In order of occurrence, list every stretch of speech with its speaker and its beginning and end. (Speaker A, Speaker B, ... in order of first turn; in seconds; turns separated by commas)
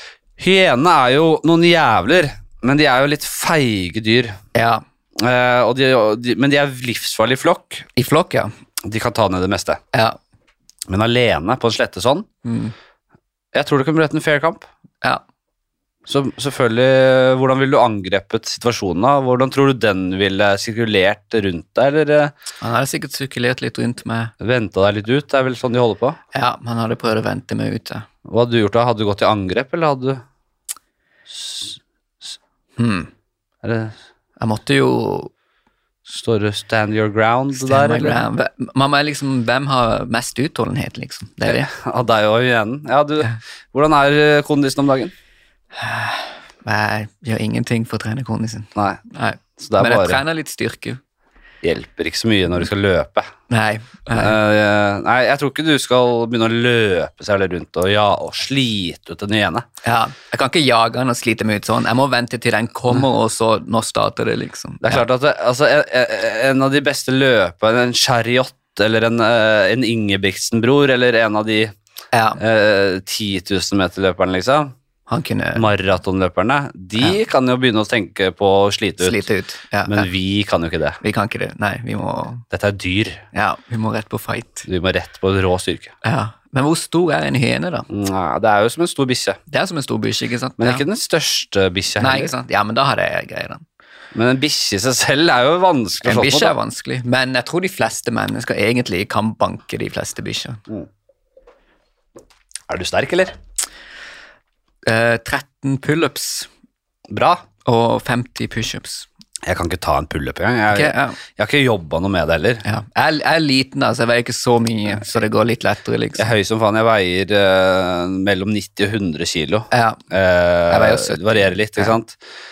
Speaker A: 0.4-4.4, Speaker B: 4.5-4.8, Speaker A: 5.2-7.9, Speaker B: 8.0-8.5, Speaker A: 8.8-9.8, Speaker B: 9.9-10.2, Speaker A: 10.9-12.3, Speaker B: 12.4-12.7, Speaker A: 13.5-14.7, Speaker A: 16.1-22.3, Speaker B: 22.6-24.3, Speaker A: 24.4-26.2, Speaker B: 26.3-28.1, Speaker A: 28.3-30.2, Speaker A: 31.3-31.8, Speaker B: 32.8-33.1, Speaker A: 33.6-34.0, Speaker B: 34.4-35.3, Speaker A: 36.1-38.2, Speaker B: 37.5-41.7, Speaker A: 41.5-45.1, Speaker B: 45.7-51.0, Speaker A: 48.7-49.0, Speaker A: 49.6-50.2, Speaker A: 51.6-53.3, Speaker B: 53.5-54.4, Speaker A: 54.1-59.7, Speaker B: 59.8-65.0, Speaker A: 64.8-71.7, Speaker B: 72.1-72.4, Speaker A: 72.4-74.7, Speaker B: 75.1-75.6, Speaker A: 75.5-79.2, Speaker B: 79.0-80.1, Speaker A: 79.9-81.0, Speaker B: 81.0-82.5, Speaker A: 82.5-83.2, Speaker B: 83.3-84.6, Speaker A: 84.6-85.9, Speaker B: 86.0-87.9, Speaker A: 87.9-89.4, Speaker B: 89.5-90.8, Speaker A: 90.6-92.3, Speaker B: 92.0-93.6, Speaker A: 94.1-96.5, Speaker B: 96.0-100.6, Speaker A: 102.7-103.4, Speaker B: 104.8-106.5, Speaker A: 107.1-107.4, Speaker B: 107.6-109.1, Speaker A: 109.5-112.6, Speaker B: 110.7-111.2, Speaker B: 112.6-116.3, Speaker A: 116.2-122.2, Speaker B: 119.7-120.0, Speaker B: 120.7-122.0